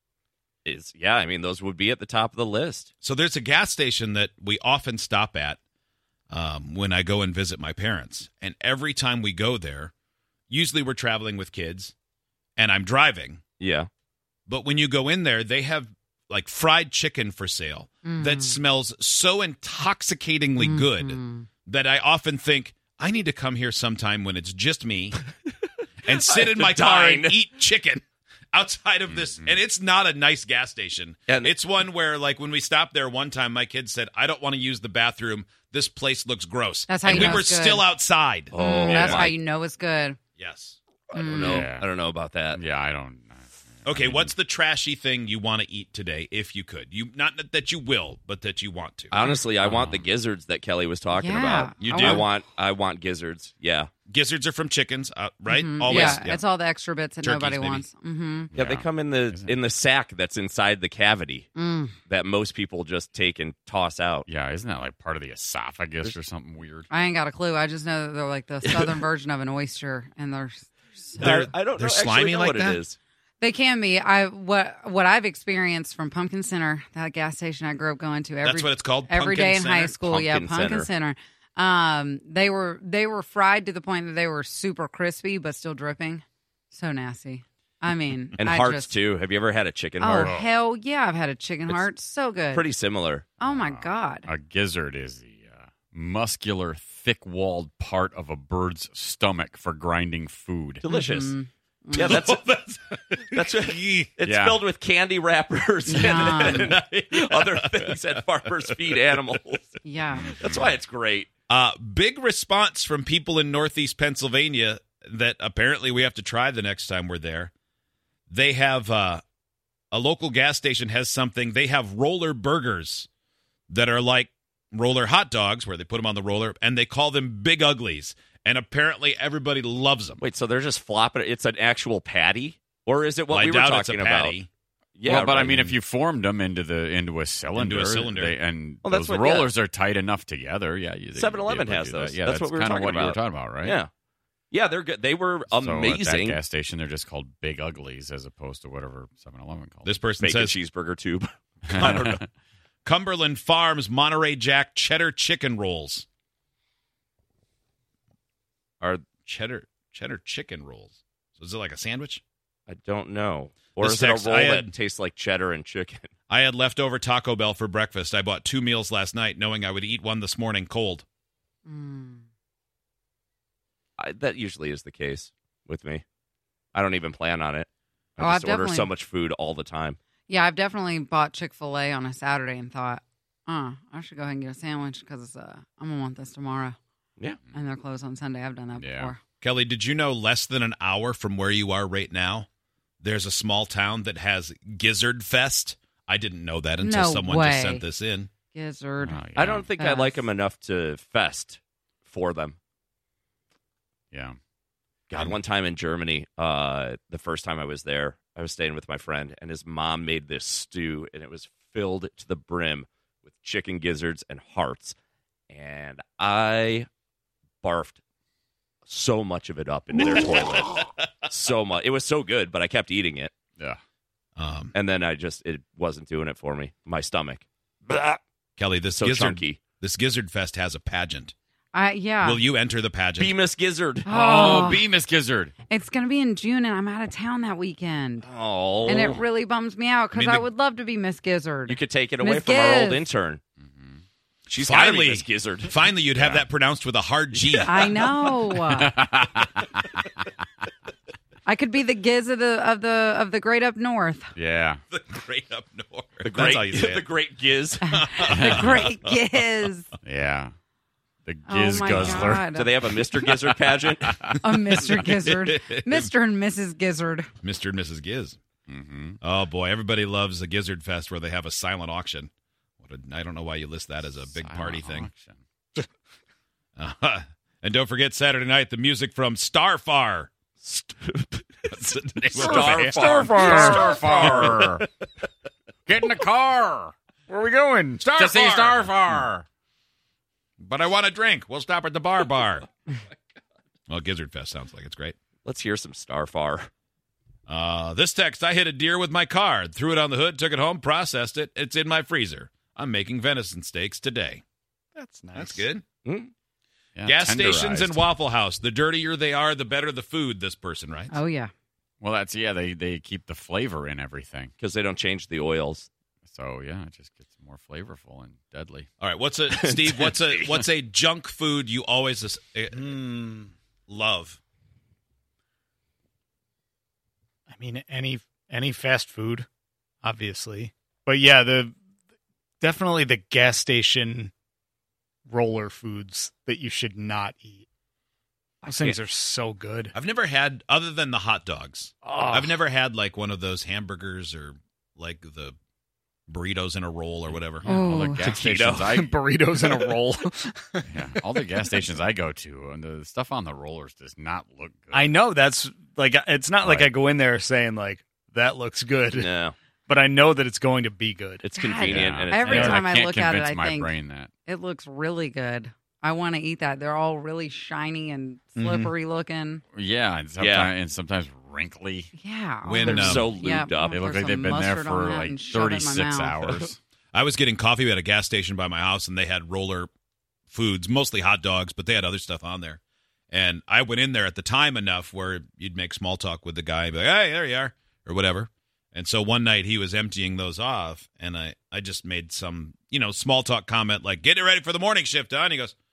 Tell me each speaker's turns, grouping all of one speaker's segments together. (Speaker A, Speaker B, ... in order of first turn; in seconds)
Speaker A: 0.7-2.9, 13.6-13.9, 26.1-27.4, 31.3-31.5, 38.5-39.4, 41.1-42.6, 49.1-53.9, 55.9-56.2, 58.5-61.5, 62.1-64.3, 68.6-69.0, 71.2-73.0, 80.0-80.9, 88.4-90.3, 92.5-93.4, 100.8-101.4, 102.0-102.5, 103.3-111.3, 130.2-134.4, 135.0-135.8, 138.8-139.5, 141.2-143.9, 144.5-146.4, 150.2-152.2, 158.8-159.1, 162.7-166.1, 174.0-176.0, 176.7-180.0, 199.3-202.6, 205.1-214.9, 215.5-216.9, 217.6-218.0, 218.9-223.3, 224.7-228.2, 228.9-229.6, 233.2-234.1, 238.2-239.2, 241.7-243.4, 244.5-246.4, 256.2-257.8, 262.0-264.1, 280.6-281.5, 282.3-284.6, 295.4-296.7, 306.0-306.3, 314.6-315.9, 319.5-320.6, 348.2-349.0, 359.1-359.6, 361.4-362.8, 370.4-370.7, 372.8-374.0
Speaker B: 3.0-5.6, 6.3-9.9, 10.5-11.9, 12.6-13.4, 14.5-25.2, 26.1-38.5, 40.4-40.8, 43.9-49.1, 51.8-52.2, 54.1-56.4, 57.2-57.9, 71.2-72.8, 78.4-80.0, 102.0-104.2, 106.3-106.7, 107.4-109.0, 111.5-117.5, 118.3-119.2, 119.9-123.1, 123.7-130.2, 133.3-134.5, 137.5-138.3, 149.8-150.6, 152.8-156.1, 159.2-162.2, 163.8-164.7, 166.3-171.0, 189.4-192.5, 193.0-198.3, 224.4-224.7, 228.6-231.3, 232.2-233.3, 240.1-240.5, 244.5-248.0, 254.9-257.1, 257.9-259.2, 264.8-266.1, 267.4-268.4, 269.2-272.3, 272.8-275.1, 276.8-280.3, 281.7-283.1, 288.0-289.2, 290.6-292.7, 293.9-295.2, 297.5-304.4, 305.3-305.8, 307.0-311.1, 319.0-323.2, 323.9-324.4, 339.9-345.6, 346.3-347.7, 372.7-373.4, 377.1-379.9, 380.5-382.8, 383.3-395.7
Speaker C: 18.1-18.6, 20.6-21.5, 36.9-37.9, 38.6-40.2, 41.1-41.7, 51.1-52.3, 55.5-58.5, 61.5-62.0, 66.9-71.4, 73.4-89.0, 90.0-92.7, 93.4-94.3, 100.8-102.2, 105.9-106.7, 109.8-110.3, 171.7-172.2, 178.2-178.9, 180.3-186.8, 187.5-189.2, 196.8-197.8, 198.5-199.2, 199.8-200.3, 231.7-232.4, 234.1-234.8, 235.7-238.3, 238.8-243.1, 247.7-248.9, 251.5-254.3, 257.8-259.9, 261.5-262.9, 264.4-267.3, 311.1-311.5, 347.6-348.3, 361.5-363.9, 364.5-369.6, 372.1-376.5
Speaker D: 29.1-29.6, 37.1-37.3, 38.8-39.3, 41.4-41.9, 42.5-44.3, 49.6-50.1, 58.5-59.6, 64.3-66.9, 90.2-90.5, 93.4-100.8, 104.2-104.6, 110.2-110.6, 135.1-143.8, 145.5-149.9, 151.7-152.2, 188.8-189.1, 199.0-199.7, 204.1-204.4, 234.1-235.5, 243.6-244.0, 248.8-250.0, 254.3-254.8, 258.3-258.8, 260.0-260.5, 261.2-262.5, 268.7-269.2, 274.2-275.4, 282.6-284.9, 285.9-286.9, 288.1-289.4, 307.0-308.1, 312.0-314.5, 316.2-318.9, 347.3-349.1, 350.9-355.2, 356.6-356.9, 361.8-364.3, 369.7-372.1, 373.9-376.8
Speaker E: 282.4-284.6, 287.3-288.1, 304.9-305.7, 322.8-323.5, 327.5-329.5, 330.0-331.8, 332.6-334.3, 335.3-337.7, 338.6-339.9, 342.0-342.6, 348.8-351.7, 354.9-359.3, 359.9-361.5, 362.5-362.8, 368.6-368.9